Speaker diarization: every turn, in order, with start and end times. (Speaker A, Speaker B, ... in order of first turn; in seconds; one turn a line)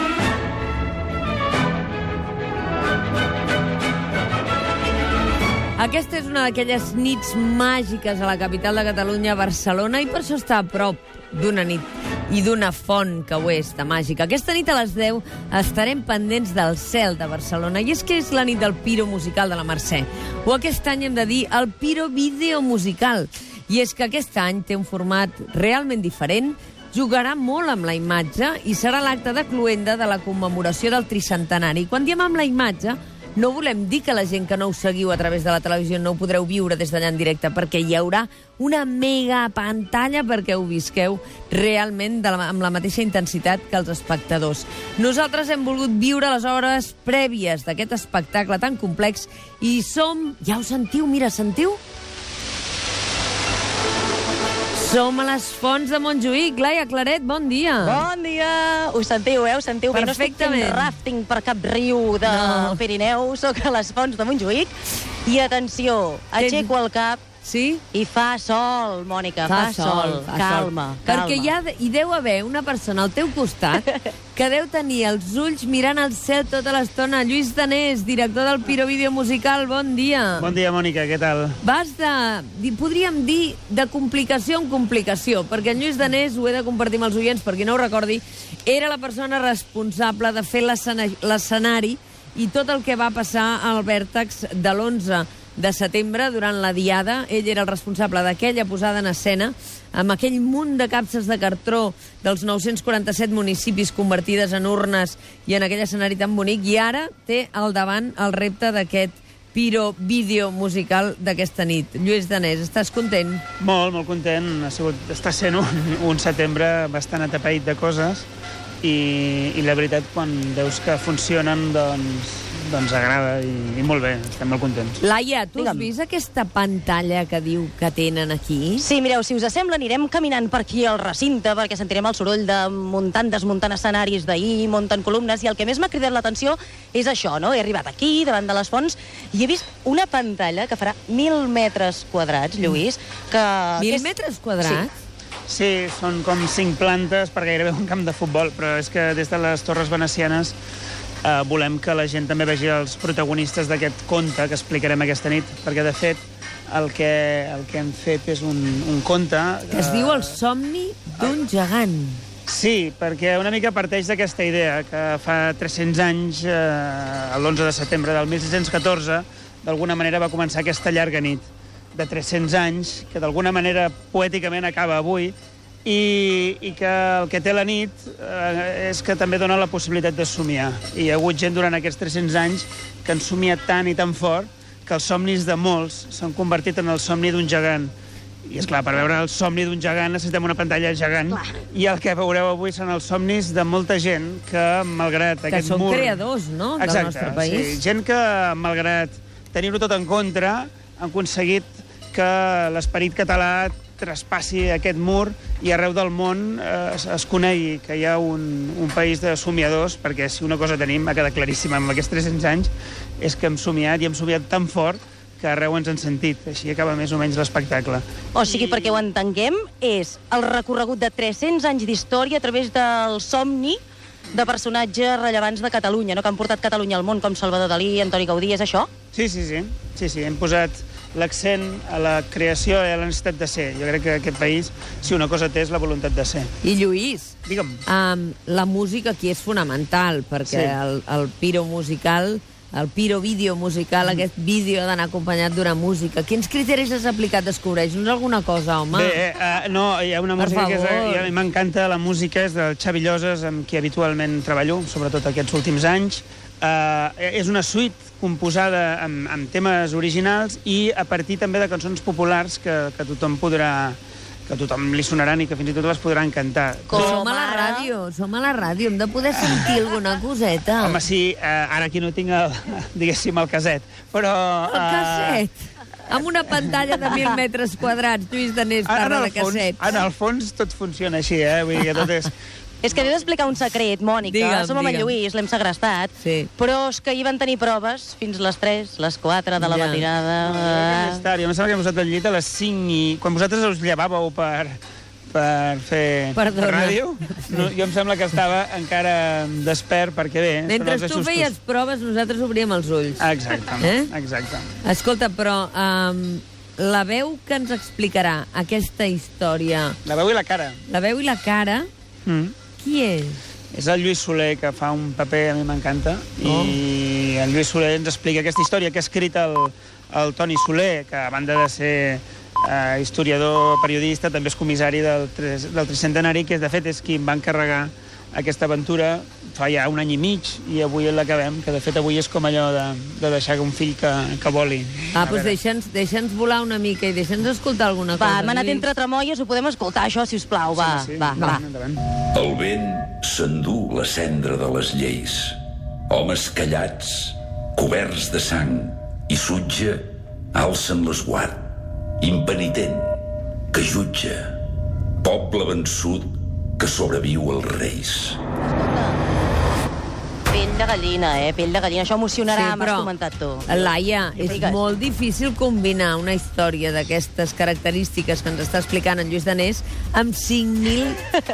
Speaker A: 5.8-51.8
Speaker A: 54.7-58.0
Speaker B: 57.8-64.7
Speaker A: 59.9-60.9
Speaker A: 62.3-62.8
Speaker B: 65.2-67.2
Speaker A: 66.4-66.7
Speaker A: 67.4-67.8
Speaker B: 67.9-71.5
Speaker A: 69.5-80.5
Speaker C: 80.4-81.6
Speaker A: 81.6-113.4
Speaker C: 113.6-118.3
Speaker C: 118.8-125.0
Speaker A: 125.0-128.8
Speaker B: 125.6-125.9
Speaker B: 128.8-144.1
Speaker A: 143.8-144.9
Speaker C: 145.5-150.6
Speaker C: 151.2-160.4
Speaker A: 159.7-162.2
Speaker C: 162.5-187.9
Speaker C: 188.5-196.2
Speaker B: 191.3-191.6
Speaker A: 195.5-197.8
Speaker C: 196.8-219.0
Speaker B: 218.3-223.8
Speaker B: 224.3-228.9
Speaker C: 229.1-236.5
Speaker A: 236.6-237.3
Speaker C: 237.5-237.8
Speaker A: 237.9-249.2
Speaker C: 240.5-240.8
Speaker C: 248.9-267.2
Speaker A: 250.4-251.3
Speaker B: 266.9-267.9
Speaker A: 266.9-271.0
Speaker C: 270.8-275.4
Speaker A: 274.7-279.8
Speaker C: 278.9-282.3
Speaker B: 282.8-291.2
Speaker A: 284.2-285.1
Speaker A: 286.2-286.5
Speaker A: 289.6-290.0
Speaker C: 290.4-294.8
Speaker C: 295.3-301.5
Speaker A: 296.3-297.6
Speaker A: 300.7-303.3
Speaker C: 303.2-304.7
Speaker A: 303.8-304.1
Speaker A: 304.8-310.0
Speaker C: 310.1-310.8
Speaker A: 310.9-311.9
Speaker C: 312.3-312.5
Speaker A: 312.8-313.4
Speaker C: 313.7-335.6
Speaker A: 316.4-316.8
Speaker A: 335.1-338.9
Speaker B: 338.2-341.6
Speaker C: 340.7-342.0
Speaker D: 342.3-345.6
Speaker D: 346.1-351.7
Speaker D: 352.2-353.2
Speaker D: 353.7-354.6
Speaker D: 355.2-358.4
Speaker B: 358.6-359.2
Speaker B: 360.5-364.9
Speaker A: 362.5-363.1
Speaker A: 363.7-371.2